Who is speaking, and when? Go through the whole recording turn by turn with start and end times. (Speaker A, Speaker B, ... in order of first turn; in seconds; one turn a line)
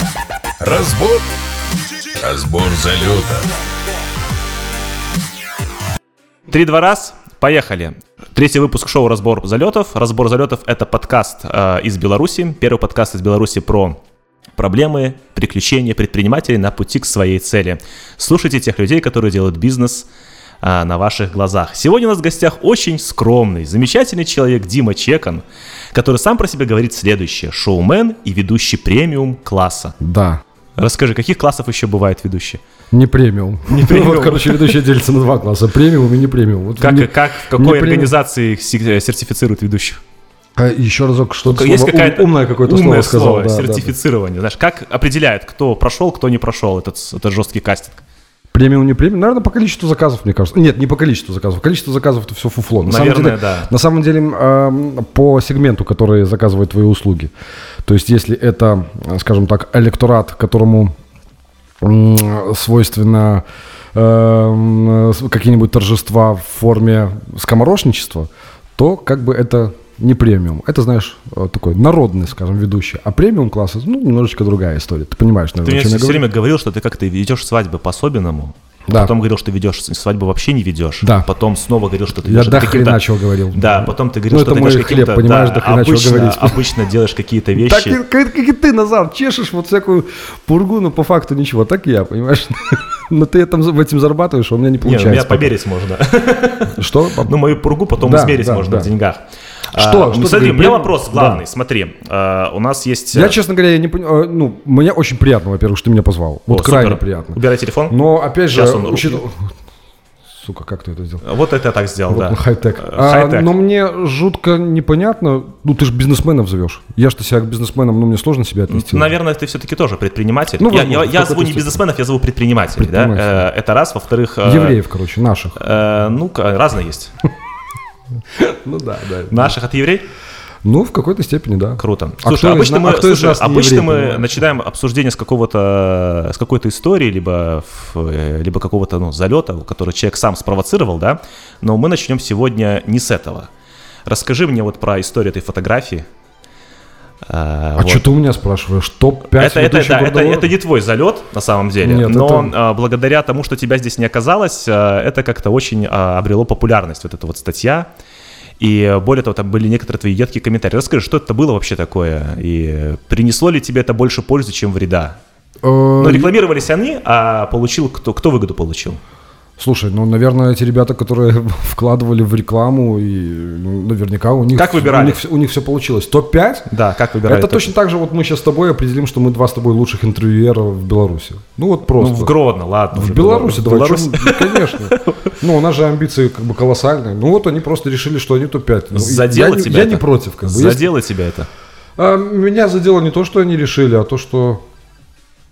Speaker A: 0.6-1.2
Speaker A: 2.2-3.5
Speaker B: 6.5-14.0
Speaker B: 14.6-20.1
Speaker B: 20.6-29.9
Speaker C: 30.0-30.4
Speaker B: 30.8-32.6
Speaker C: 32.9-38.1
Speaker B: 33.7-34.8
Speaker B: 36.8-40.0
Speaker C: 40.6-43.9
Speaker B: 41.5-48.0
Speaker C: 48.5-57.3
Speaker B: 52.8-53.7
Speaker C: 57.8-60.9
Speaker C: 61.8-76.2
Speaker B: 75.6-88.0
Speaker C: 81.0-81.3
Speaker C: 82.2-86.7
Speaker C: 87.5-95.6
Speaker B: 94.8-103.3
Speaker C: 96.7-97.4
Speaker C: 98.0-98.9
Speaker C: 99.7-101.4
Speaker C: 103.1-109.5
Speaker B: 106.5-108.0
Speaker B: 108.5-109.2
Speaker C: 110.4-111.2
Speaker B: 111.2-113.5
Speaker C: 112.1-119.2
Speaker B: 118.7-124.8
Speaker C: 120.6-121.8
Speaker C: 122.8-123.4
Speaker C: 124.4-125.6
Speaker B: 125.5-127.1
Speaker C: 128.3-129.6
Speaker B: 129.3-130.1
Speaker C: 130.6-134.4
Speaker B: 131.8-143.5
Speaker B: 144.1-146.0
Speaker B: 147.3-148.1
Speaker C: 147.8-150.5
Speaker B: 149.3-157.9
Speaker C: 151.8-152.5
Speaker B: 158.6-165.2
Speaker C: 165.6-166.4
Speaker B: 166.0-169.0
Speaker C: 169.6-176.7
Speaker B: 174.5-175.2
Speaker B: 176.7-177.7
Speaker C: 177.2-182.3
Speaker B: 182.0-185.4
Speaker C: 182.9-190.9
Speaker B: 188.9-191.5
Speaker C: 192.0-194.6